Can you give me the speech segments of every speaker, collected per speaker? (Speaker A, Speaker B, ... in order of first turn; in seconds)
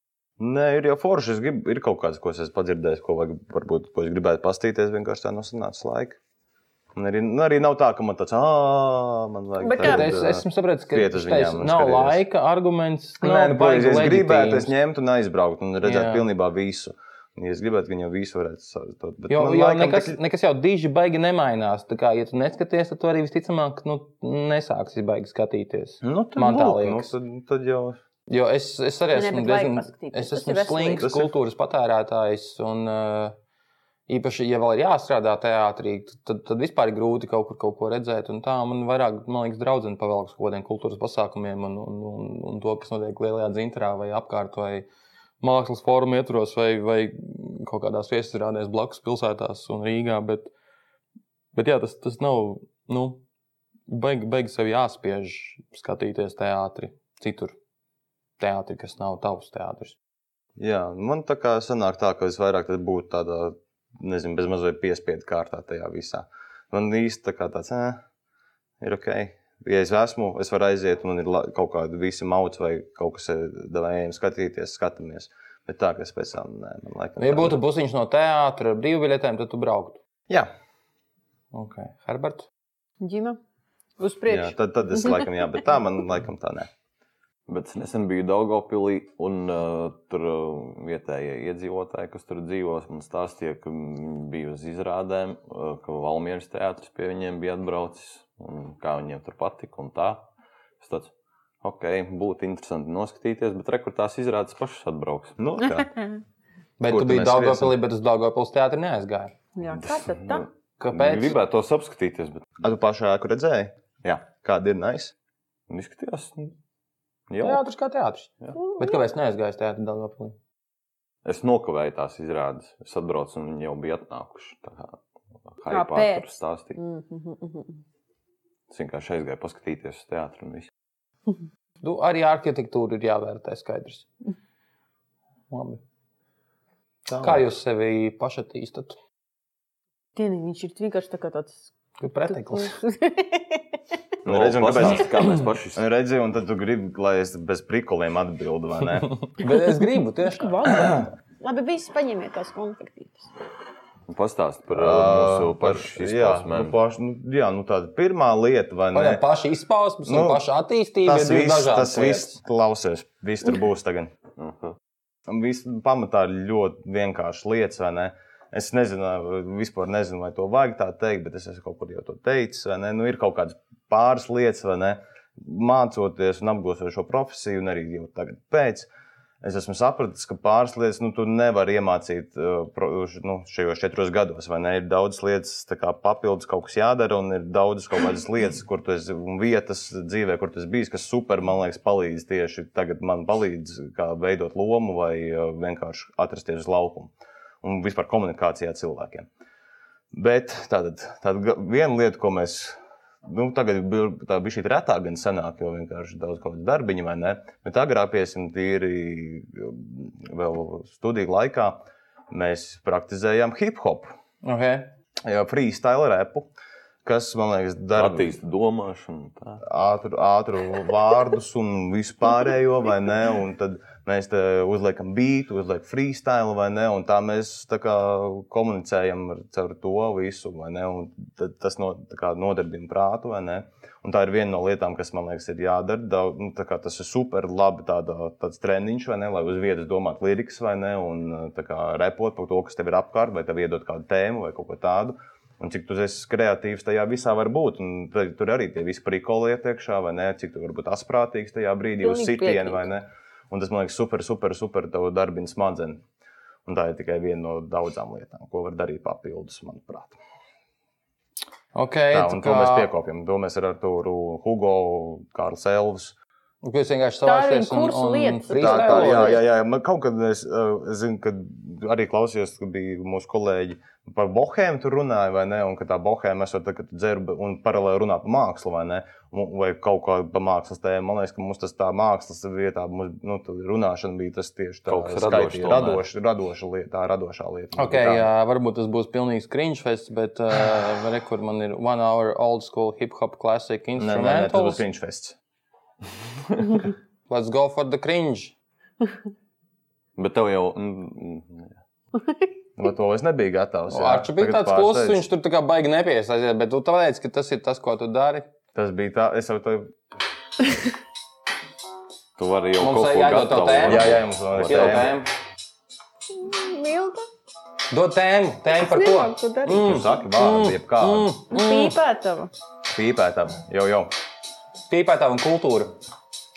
Speaker A: 0.4-6.2, 6.9-12.2, 13.2-20.2, 26.0-28.0, 31.0-31.3, 60.6-68.0, 68.8-77.6, 84.3-86.7, 105.4-105.9, 106.8-107.7, 112.6-113.7, 114.3-115.1, 137.1-137.5, 144.2-149.2, 150.7-151.1, 154.7-159.2, 160.1-160.4, 161.0-164.2, 165.3-178.9, 179.4-199.3, 200.1-214.1, 215.2-216.5, 217.0-218.3, 219.6-256.0, 256.6-260.2, 262.1-266.1, 268.6-288.3, 294.0-295.4, 302.8-305.2, 308.7-309.9, 313.8-315.2, 319.8-321.3, 322.9-324.1
Speaker B: 9.6-10.2, 29.1-31.1, 83.0-83.4, 84.0-85.3, 109.5-110.5, 118.5-119.0, 125.7-127.8, 140.2-141.7, 142.3-143.6, 150.3-153.3, 252.0-252.8, 267.2-269.4, 302.1-302.4, 316.3-317.3, 318.7-320.1, 321.5-322.5
Speaker C: 9.8-14.7, 15.8-16.2, 19.3-27.1, 28.3-33.4, 34.1-44.9, 45.4-50.5, 51.5-53.2, 53.9-57.5, 58.4-60.0, 77.2-80.0, 81.5-82.5, 106.8-109.3, 110.8-111.4, 117.4-120.3, 131.8-134.1, 135.5-135.8, 137.2-139.0, 142.0-142.8, 149.1-150.6, 158.9-162.3, 214.4-214.9, 261.7-262.9, 266.6-269.4, 287.7-294.8, 297.3-298.5, 303.9-308.5, 312.8-315.3, 317.9-321.9, 324.9-325.9
Speaker D: 87.5-100.2, 100.8-101.1, 101.6-105.3, 109.8-112.5, 115.7-116.5, 117.3-117.6, 121.2-125.0, 125.5-126.8, 128.7-130.7, 144.2-145.8, 154.1-156.8, 164.4-164.8, 217.9-219.6, 284.9-286.0, 300.1-301.8, 312.4-315.1